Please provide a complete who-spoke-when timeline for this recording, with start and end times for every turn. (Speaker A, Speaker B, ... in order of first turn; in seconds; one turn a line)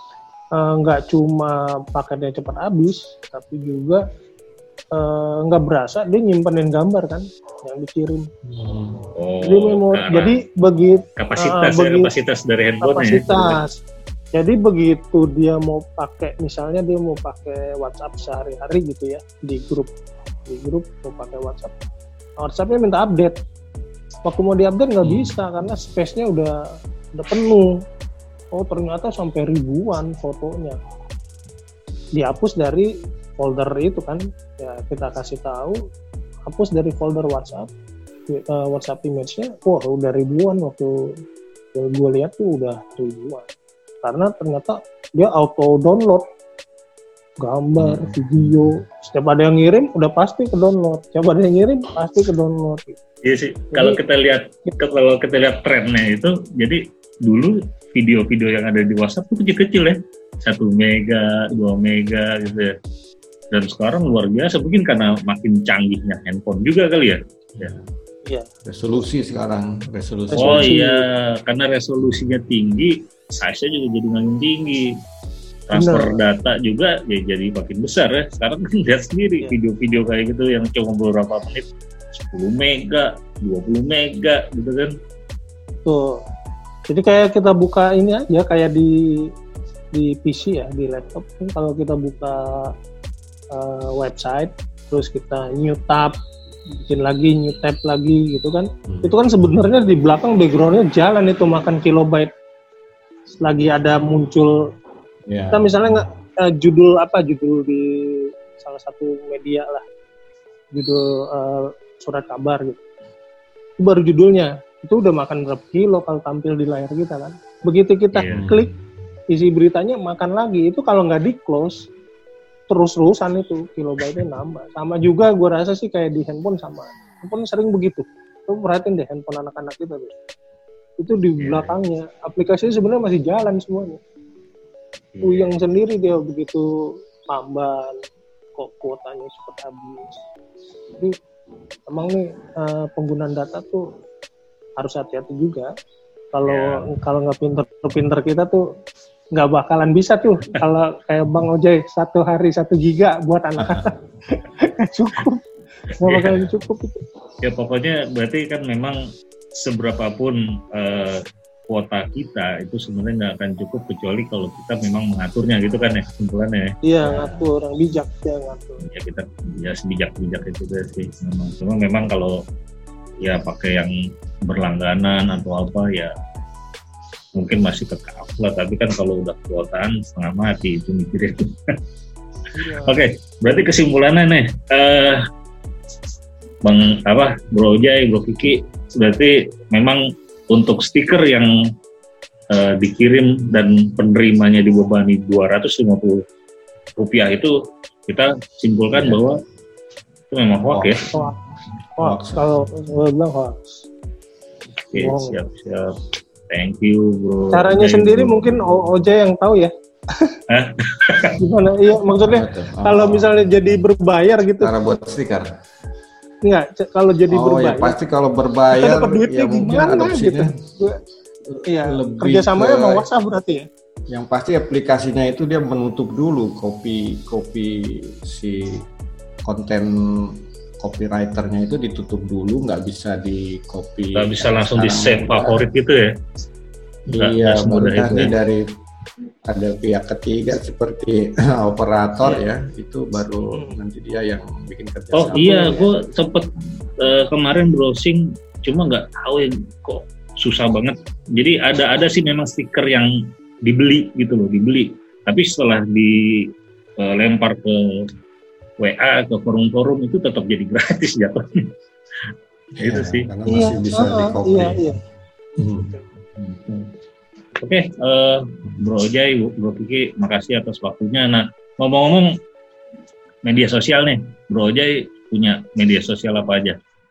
Speaker A: 0.6-4.0
Speaker A: 5.0-8.2
Speaker B: 8.5-9.1
Speaker C: 9.2-10.4
Speaker A: 9.4-12.1
Speaker C: 11.2-13.6
Speaker A: 12.8-13.8
Speaker A: 14.3-19.9
Speaker A: 20.5-21.7
Speaker A: 22.4-23.3
Speaker A: 24.2-26.5
Speaker A: 27.1-27.7
Speaker A: 28.5-30.8
Speaker A: 32.2-32.9
Speaker A: 33.4-35.8
Speaker A: 36.5-37.7
Speaker A: 38.3-40.9
Speaker A: 41.7-43.5
Speaker A: 44.0-46.2
Speaker A: 47.4-53.0
Speaker B: 47.8-48.2
Speaker C: 53.2-62.7
Speaker A: 53.7-54.0
Speaker C: 63.5-67.8
Speaker B: 67.6-67.9
Speaker B: 68.7-70.7
Speaker A: 70.3-71.0
Speaker C: 70.4-74.8
Speaker C: 75.7-81.7
Speaker A: 75.7-76.2
Speaker C: 82.2-84.9
Speaker A: 85.8-86.2
Speaker A: 86.9-88.9
Speaker A: 90.0-92.7
Speaker A: 93.5-96.1
Speaker A: 96.8-102.3
Speaker B: 98.9-99.2
Speaker A: 103.4-104.5
Speaker B: 105.3-105.7
Speaker A: 105.5-109.8
Speaker A: 110.7-112.8
Speaker A: 113.8-118.7
Speaker C: 118.1-118.6
Speaker B: 118.3-118.7
Speaker A: 119.3-121.9
Speaker A: 122.7-130.1
Speaker A: 131.0-134.0
Speaker C: 131.4-131.7
Speaker C: 135.1-135.6
Speaker A: 135.2-136.7
Speaker A: 137.3-138.0
Speaker A: 138.6-140.2
Speaker A: 141.9-143.8
Speaker A: 144.8-145.7
Speaker A: 146.3-148.6
Speaker C: 146.5-146.8
Speaker A: 149.3-155.4
Speaker B: 153.6-153.9
Speaker A: 156.0-157.0
Speaker C: 156.1-156.5
Speaker C: 157.4-159.0
Speaker C: 159.6-166.8
Speaker A: 166.9-168.8
Speaker B: 167.0-167.5
Speaker C: 168.9-172.3
Speaker C: 173.2-173.9
Speaker C: 174.5-176.1
Speaker C: 177.4-181.5
Speaker C: 182.6-185.2
Speaker A: 182.6-183.0
Speaker C: 186.6-190.0
Speaker C: 190.5-191.5
Speaker C: 192.5-196.2
Speaker C: 197.0-197.5
Speaker C: 198.1-199.4
Speaker B: 198.9-199.2
Speaker C: 200.3-201.0
Speaker B: 200.7-201.0
Speaker A: 201.1-201.4
Speaker B: 202.0-202.5
Speaker A: 202.0-203.8
Speaker C: 204.9-205.9
Speaker A: 205.0-205.4
Speaker C: 206.5-208.6
Speaker A: 207.5-209.7
Speaker C: 210.5-211.3
Speaker A: 211.4-214.7
Speaker B: 212.2-213.8
Speaker B: 214.6-215.5
Speaker A: 216.4-218.0
Speaker B: 217.3-220.5
Speaker A: 218.8-221.0
Speaker B: 221.5-223.1
Speaker A: 221.7-223.7
Speaker B: 224.1-228.8
Speaker B: 229.4-235.7
Speaker C: 234.2-236.1
Speaker C: 237.1-238.3
Speaker B: 237.1-238.7
Speaker B: 239.5-245.8
Speaker A: 243.5-243.8
Speaker C: 245.2-246.4
Speaker A: 245.3-245.9
Speaker C: 247.0-253.1
Speaker C: 253.7-256.1
Speaker C: 257.0-257.8
Speaker C: 258.8-261.4
Speaker B: 262.8-264.8
Speaker C: 262.8-263.3
Speaker A: 263.5-265.0
Speaker B: 265.6-266.0
Speaker C: 266.4-266.9
Speaker C: 267.6-272.3
Speaker C: 273.4-276.8